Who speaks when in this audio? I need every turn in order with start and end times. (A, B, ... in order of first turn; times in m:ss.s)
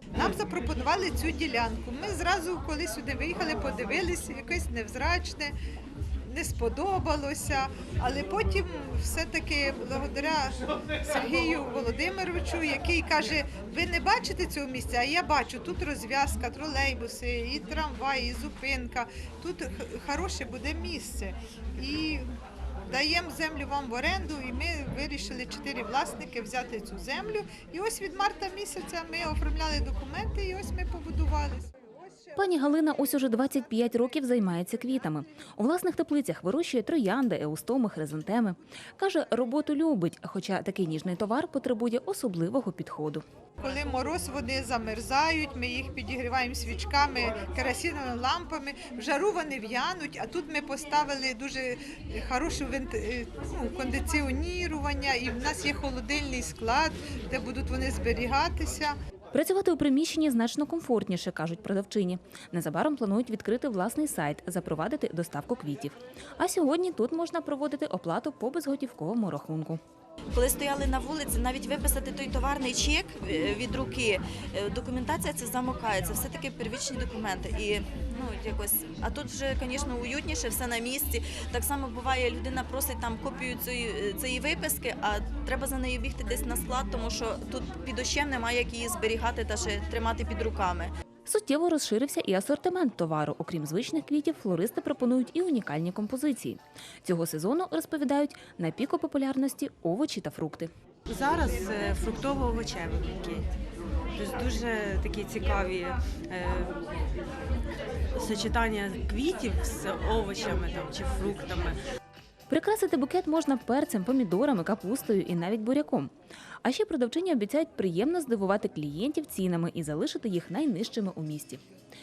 0:00.1-0:05.6 A
0:06.3-0:22.3 A
0:22.9-0:32.3 A
0:32.4-0:43.2 B
0:43.6-0:59.0 A
0:59.3-1:09.8 B
1:10.3-1:30.9 C
1:31.2-1:40.7 B
1:41.0-1:43.5 D
1:44.1-1:46.8 D
1:48.1-1:51.8 D
1:52.5-1:56.1 B
1:56.6-2:01.6 B